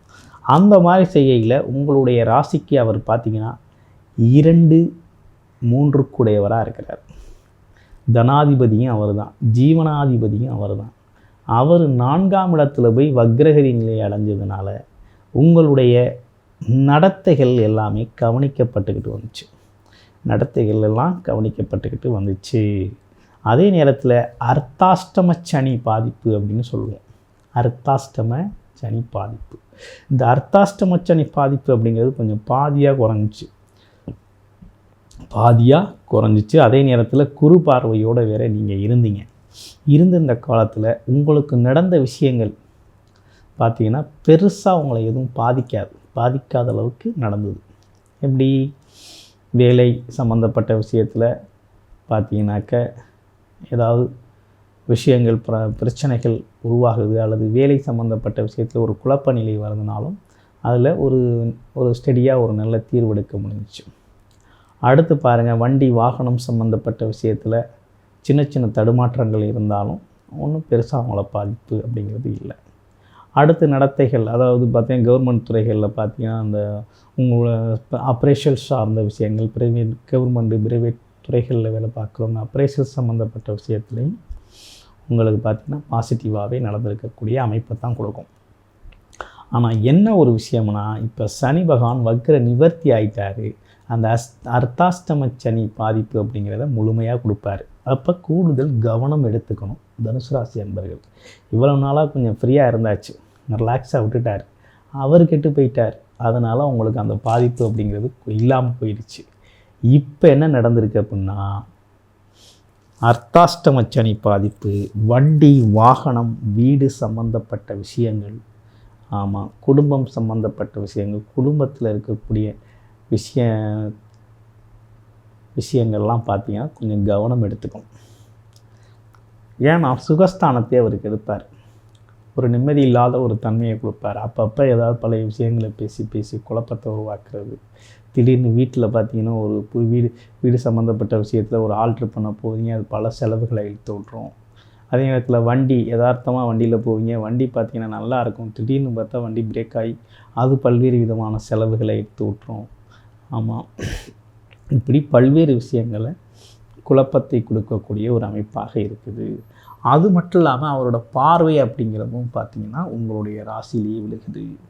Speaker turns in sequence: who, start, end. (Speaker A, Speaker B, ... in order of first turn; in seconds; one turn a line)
Speaker A: 0.5-3.5
Speaker A: 4.3-4.8
Speaker A: 5.7-7.0
Speaker A: 8.1-10.9
Speaker A: 11.6-14.7
Speaker A: 15.4-16.0
Speaker A: 16.7-19.5
Speaker A: 20.3-22.6
Speaker A: 23.5-27.0
Speaker A: 27.6-29.6
Speaker A: 30.1-33.5
Speaker A: 35.3-39.3
Speaker A: 39.9-42.5
Speaker A: 43.6-47.6
Speaker A: 48.2-48.5
Speaker A: 49.6-51.3
Speaker A: 52.1-52.8
Speaker A: 53.7-54.1
Speaker A: 54.9-63.9
Speaker A: 64.9-67.6
Speaker A: 68.2-72.6
Speaker A: 73.4-76.6
Speaker A: 77.2-84.1
Speaker A: 85.1-88.3
Speaker A: 89.6-104.5
Speaker A: 105.0-109.2
Speaker A: 109.9-111.5
Speaker A: 113.1-118.4
Speaker A: 119.2-122.5
Speaker A: 123.1-123.9
Speaker A: 125.6-127.9
Speaker A: 129.7-131.5
Speaker A: 132.4-137.6
Speaker A: 138.1-144.3
Speaker A: 144.9-152.7
Speaker A: 153.3-154.0
Speaker A: 154.8-156.1
Speaker A: 156.9-159.3
Speaker A: 159.9-164.5